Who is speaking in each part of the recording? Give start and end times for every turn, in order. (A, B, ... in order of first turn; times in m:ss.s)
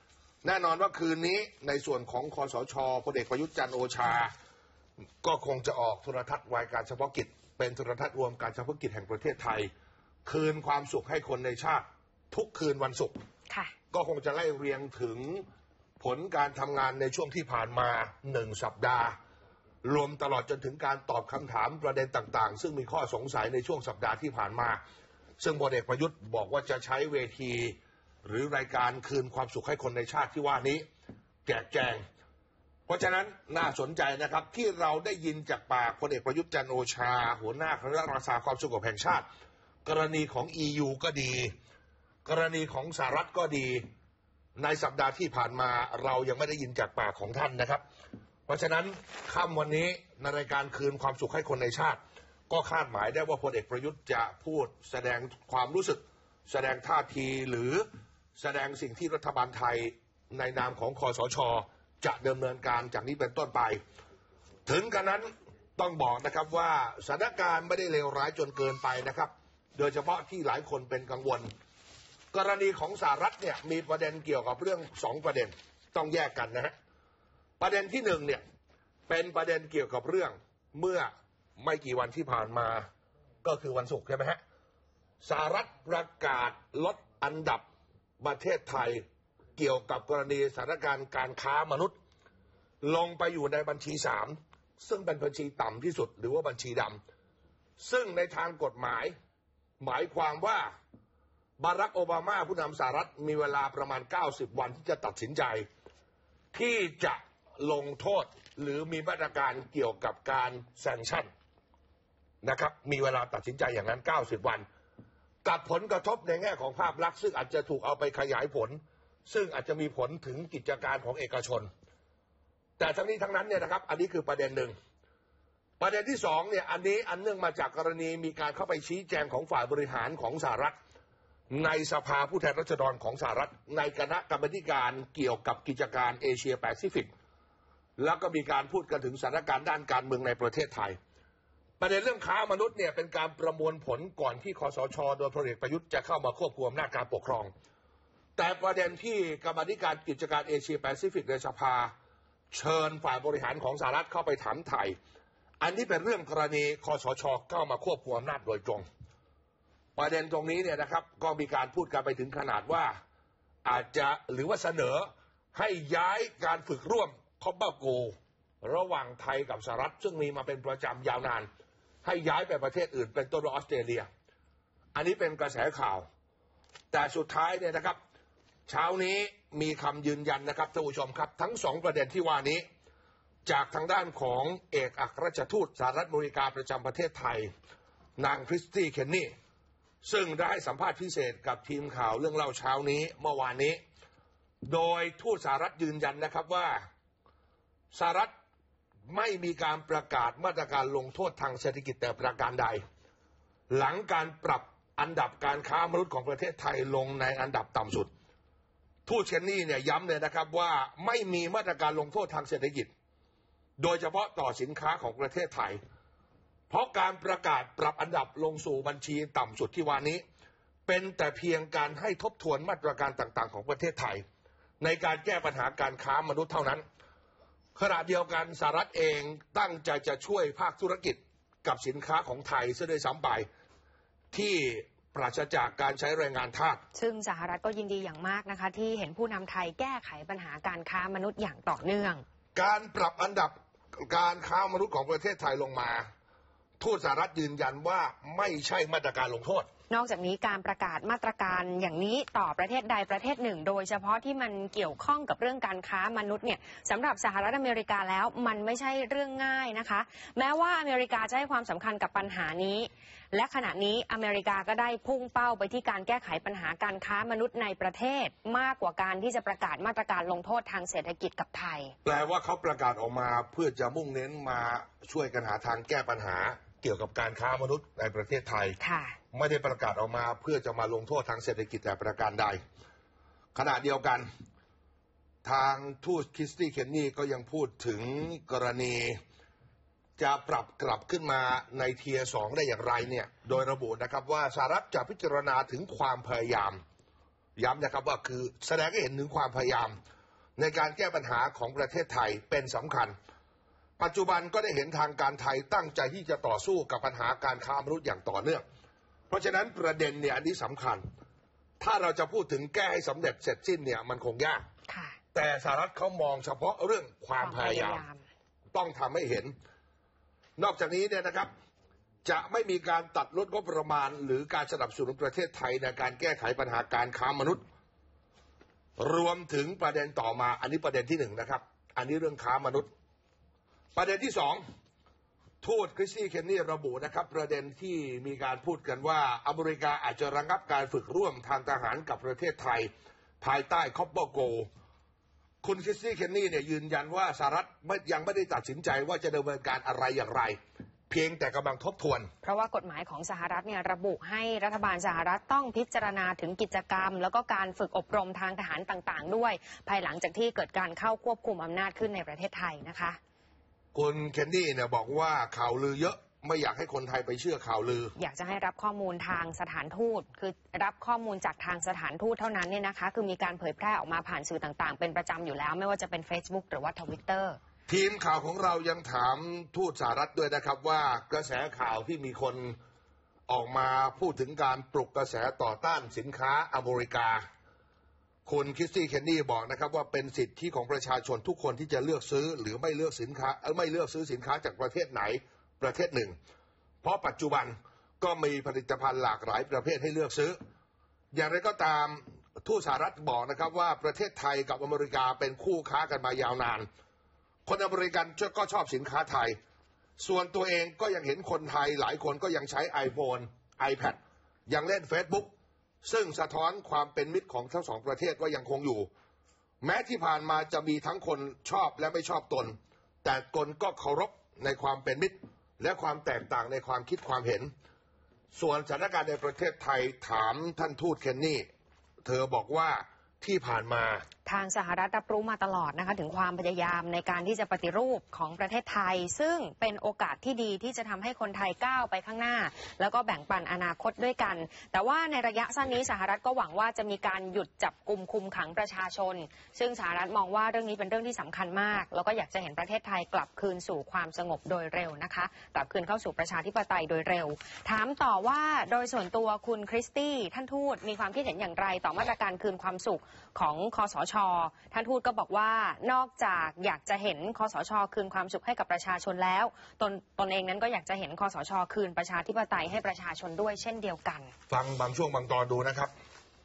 0:00.4-0:04.3 A
0:05.2-0:09.7 A
0:10.2-0:13.2 A
0:13.9-0:15.5 A
0:16.0-0:19.2 A
0:19.8-0:24.8 A
0:25.4-0:30.8 A
0:31.5-0:32.0 A
0:32.9-0:39.2 A
0:39.8-0:41.5 A
0:42.2-0:43.8 A
0:44.6-0:47.8 A
0:48.5-0:57.8 A
0:58.4-1:03.8 A
1:04.7-1:11.5 A
1:12.3-1:16.7 A
1:17.6-1:18.4 A
1:19.1-1:22.9 A
1:23.4-1:24.4 A
1:25.2-1:27.6 A
1:28.2-1:29.0 A
1:29.6-1:32.0 A
1:32.8-1:37.0 A
1:37.8-1:39.1 A
1:39.8-1:40.7 A
1:41.6-1:45.7 A
1:46.5-1:51.3 A
1:52.4-1:54.7 A
1:55.4-2:01.7 A
2:02.8-2:04.7 A
2:05.8-2:10.8 A
2:11.5-2:17.1 A
2:18.0-2:21.0 A
2:21.8-2:27.5 A
2:28.4-2:31.9 A
2:32.5-2:35.0 A
2:35.6-2:38.9 A
2:40.0-2:42.9 A
2:43.6-2:51.5 A
2:52.0-2:54.1 A
2:55.0-2:56.1 A
2:56.9-2:58.0 A
2:58.7-3:02.6 A
3:03.5-3:07.5 A
3:08.2-3:09.3 A
3:10.0-3:13.8 A
3:14.6-3:16.8 A
3:17.9-3:18.3 A
3:19.1-3:22.8 A
3:23.7-3:28.1 A
3:29.1-3:32.9 A
3:33.8-3:35.8 A
3:36.7-3:40.2 A
3:40.9-3:44.2 A
3:44.8-3:46.8 A
3:47.8-3:53.5 A
3:54.3-3:56.8 A
3:56.9-4:02.2 B
4:02.6-4:06.1 A
4:06.8-4:09.7 A
4:09.9-4:31.9 B
4:32.0-4:38.8 A
4:38.8-4:39.2 B
4:39.3-4:42.6 A
4:43.6-4:44.3 A
4:45.4-4:49.2 A
4:50.2-4:56.8 A
4:57.6-4:59.9 A
5:00.6-5:03.1 A
5:04.0-5:08.6 A
5:09.3-5:11.0 A
5:11.8-5:14.6 A
5:14.9-5:15.2 B
5:15.3-5:18.0 A
5:17.4-5:18.2 B
5:18.7-5:19.5 A
5:20.6-5:21.5 A
5:22.2-5:27.6 A
5:29.0-5:32.9 A
5:34.0-5:34.6 A
5:35.6-5:42.9 A
5:43.4-5:44.7 A
5:45.6-5:50.6 A
5:51.1-5:52.3 A
5:52.4-6:03.2 B
6:03.9-6:08.1 A
6:08.2-6:17.6 B
6:17.9-6:22.8 A
6:23.5-6:27.4 A
6:28.4-6:36.4 A
6:37.0-6:40.6 A
6:41.3-6:46.9 A
6:47.7-6:49.6 A
6:50.2-6:59.1 A
6:59.8-7:07.7 A
7:08.5-7:11.7 A
7:12.2-7:14.2 A
7:14.4-7:54.5 B
7:54.7-7:56.1 A